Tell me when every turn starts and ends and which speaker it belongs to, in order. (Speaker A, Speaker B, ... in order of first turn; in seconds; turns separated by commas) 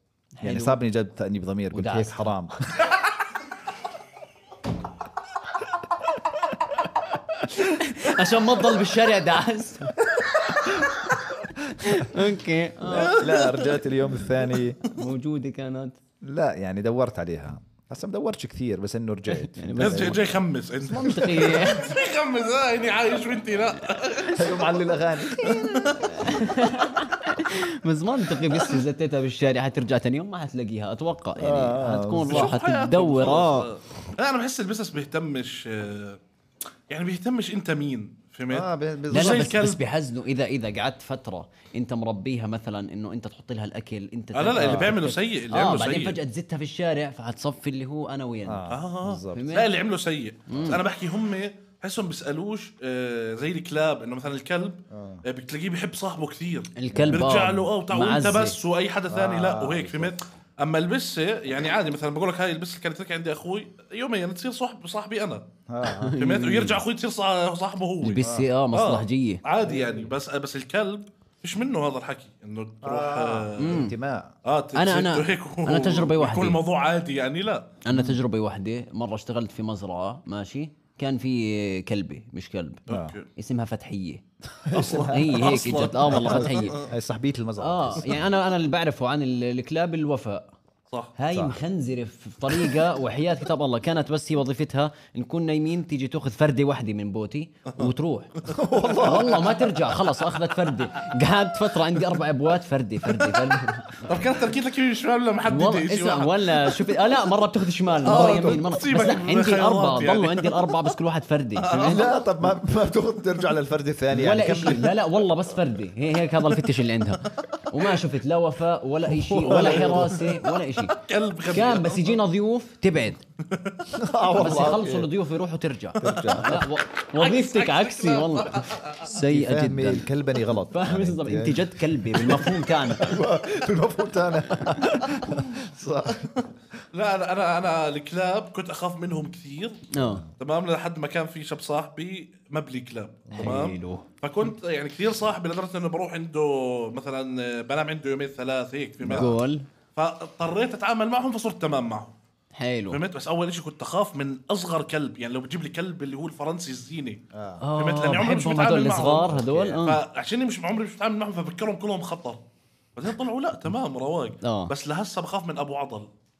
Speaker A: 0.4-0.8, Speaker B: 0.4-2.8, Speaker A: 1.7-2.3, Speaker A: 7.5-10.0, Speaker A: 11.8-13.2, Speaker B: 12.8-14.8, Speaker C: 13.0-13.7, Speaker A: 14.9-16.0, Speaker B: 16.2-20.3, Speaker A: 19.4-20.2, Speaker C: 19.8-24.6, Speaker A: 20.9-21.9, Speaker B: 20.9-21.4, Speaker B: 24.3-26.0, Speaker C: 25.4-26.2, Speaker A: 26.0-33.7, Speaker B: 31.4-32.5, Speaker C: 32.3-36.2, Speaker C: 36.9-39.8, Speaker B: 38.5-39.5, Speaker A: 39.1-48.6, Speaker C: 44.3-46.2, Speaker B: 44.5-44.9, Speaker B: 48.4-49.5, Speaker C: 48.7-65.4, Speaker A: 49.3-49.7, Speaker A: 50.5-50.8, Speaker B: 50.5-50.8, Speaker B: 54.9-55.2, Speaker A: 56.8-58.6, Speaker B: 56.9-57.3, Speaker B: 59.1-60.1, Speaker B: 65.7-66.2, Speaker A: 65.8-66.8, Speaker C: 66.2-68.2, Speaker A: 68.0-69.4, Speaker B: 68.2-68.5, Speaker C: 68.7-73.9, Speaker B: 69.6-70.1, Speaker B: 72.8-74.3, Speaker A: 73.6-73.9, Speaker C: 74.4-77.8, Speaker A: 74.7-76.6, Speaker A: 77.8-82.8, Speaker B: 77.9-78.2, Speaker C: 82.9-83.3, Speaker B: 82.9-83.1, Speaker A: 83.3-84.2, Speaker B: 84.6-85.3, Speaker C: 84.7-86.9, Speaker A: 84.7-86.8, Speaker B: 86.1-88.2, Speaker A: 87.6-90.5, Speaker A: 91.2-98.3, Speaker B: 91.3-91.6, Speaker C: 97.7-99.4, Speaker B: 98.5-99.8, Speaker A: 99.0-104.2, Speaker C: 104.0-106.8, Speaker A: 105.5-112.0, Speaker C: 108.0-110.7, Speaker B: 108.1-108.5, Speaker C: 111.6-112.1, Speaker B: 111.8-115.0, Speaker A: 114.1-121.0, Speaker B: 119.2-120.3, Speaker C: 119.4-120.3, Speaker C: 120.9-122.2, Speaker A: 121.5-123.2, Speaker C: 123.4-123.9, Speaker B: 123.9-125.1, Speaker A: 124.4-130.1, Speaker B: 126.0-126.7, Speaker C: 126.0-126.6, Speaker C: 127.1-129.0, Speaker B: 129.2-136.4, Speaker A: 130.7-133.2, Speaker C: 136.9-139.8, Speaker A: 139.9-140.2, Speaker C: 140.4-149.3, Speaker B: 143.3-143.6, Speaker A: 143.3-144.0, Speaker B: 149.0-149.3, Speaker A: 149.1-149.7, Speaker C: 149.9-152.1, Speaker A: 152.6-153.0, Speaker C: 152.9-157.2, Speaker B: 157.3-157.6, Speaker A: 157.6-160.0, Speaker C: 157.8-162.4, Speaker B: 159.3-159.8, Speaker C: 162.9-166.1, Speaker A: 164.4-164.7